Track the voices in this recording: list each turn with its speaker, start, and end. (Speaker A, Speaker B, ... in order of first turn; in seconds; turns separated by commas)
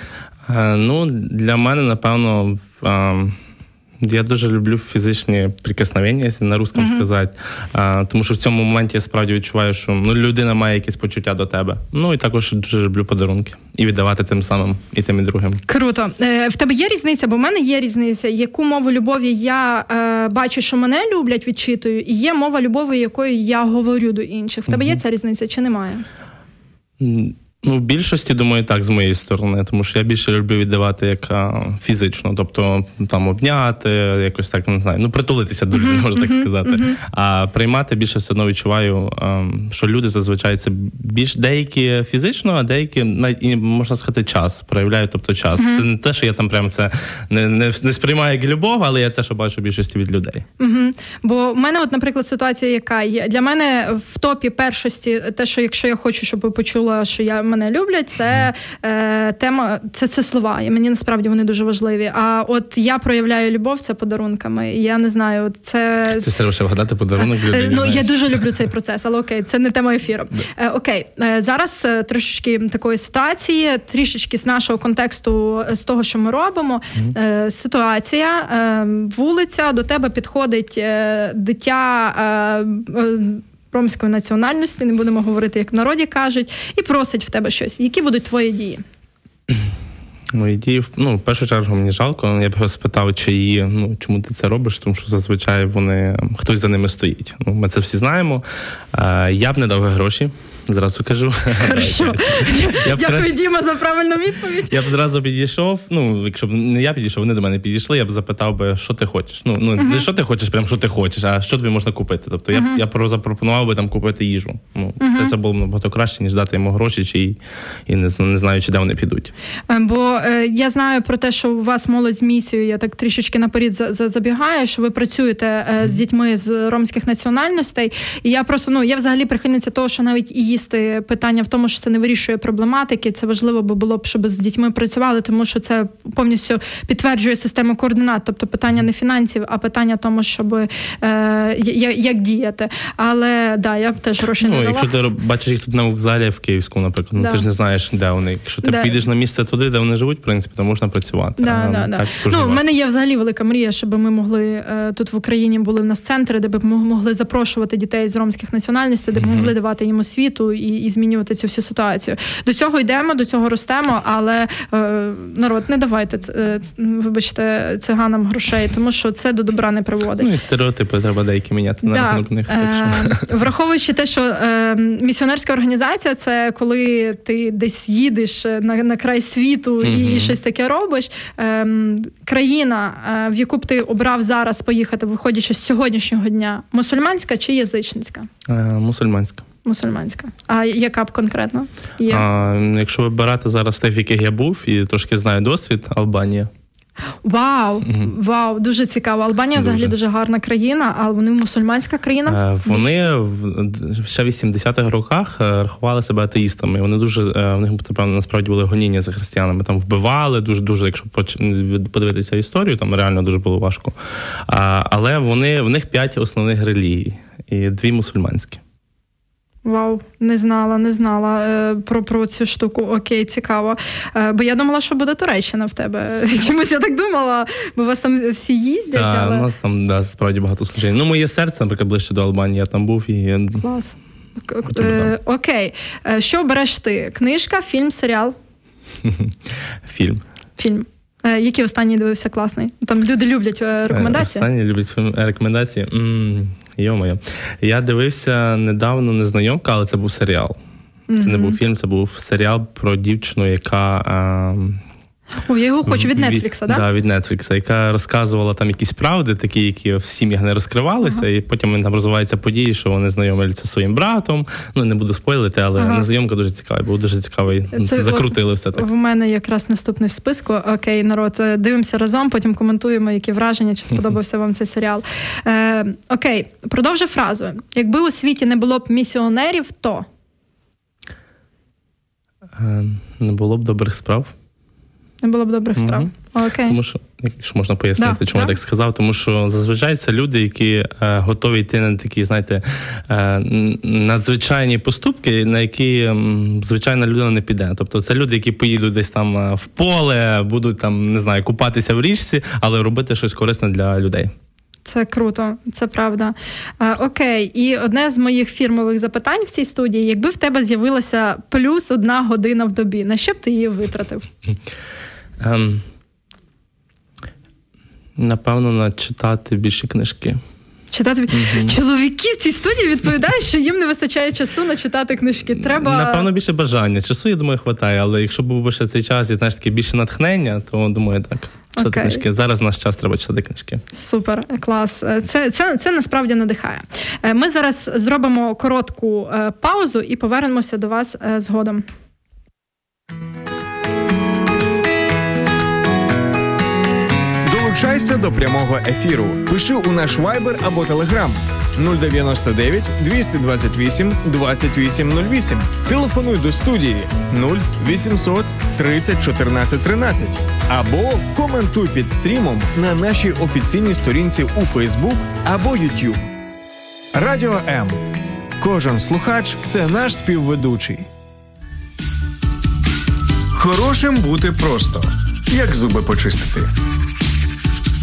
Speaker A: 0.5-3.4, Speaker A: 4.0-15.6, Speaker B: 6.8-7.0, Speaker B: 15.7-26.1, Speaker A: 24.7-25.0, Speaker A: 27.0-50.4, Speaker B: 35.7-37.0, Speaker B: 45.6-45.9, Speaker B: 50.6-66.3, Speaker A: 66.2-68.4, Speaker B: 67.2-88.8, Speaker A: 90.3-103.4, Speaker B: 101.6-104.8, Speaker A: 104.7-119.3, Speaker B: 109.8-110.1, Speaker B: 112.5-112.8, Speaker B: 115.0-115.3, Speaker B: 119.7-144.9, Speaker A: 144.4-152.6, Speaker B: 147.2-147.5, Speaker B: 148.6-148.9, Speaker B: 151.4-170.3, Speaker A: 159.2-159.5, Speaker A: 170.2-173.3, Speaker B: 171.8-188.3, Speaker A: 179.8-180.4, Speaker A: 188.5-189.4, Speaker B: 189.7-192.3, Speaker A: 192.1-196.5, Speaker B: 197.2-202.9, Speaker A: 199.6-199.9, Speaker A: 202.3-214.0, Speaker A: 214.5-218.6, Speaker B: 219.7-229.5, Speaker A: 228.9-233.7, Speaker B: 233.6-238.4, Speaker A: 234.7-235.1, Speaker A: 239.0-240.2, Speaker B: 240.6-244.5, Speaker A: 243.9-250.6, Speaker B: 251.1-251.6, Speaker A: 251.2-254.8, Speaker B: 255.4-256.8, Speaker A: 255.9-268.9, Speaker B: 265.8-266.1, Speaker B: 267.7-280.1, Speaker A: 282.6-284.3, Speaker B: 285.2-286.8, Speaker A: 285.8-286.1, Speaker A: 286.6-304.3, Speaker B: 288.0-288.5, Speaker B: 304.9-314.2, Speaker A: 315.4-315.8, Speaker A: 318.2-320.4, Speaker B: 320.9-326.3, Speaker A: 321.3-321.8, Speaker A: 325.5-333.8, Speaker B: 331.8-332.2, Speaker B: 333.9-341.9, Speaker C: 347.4-366.2, Speaker C: 367.1-368.0, Speaker C: 368.6-371.1, Speaker C: 373.5-376.7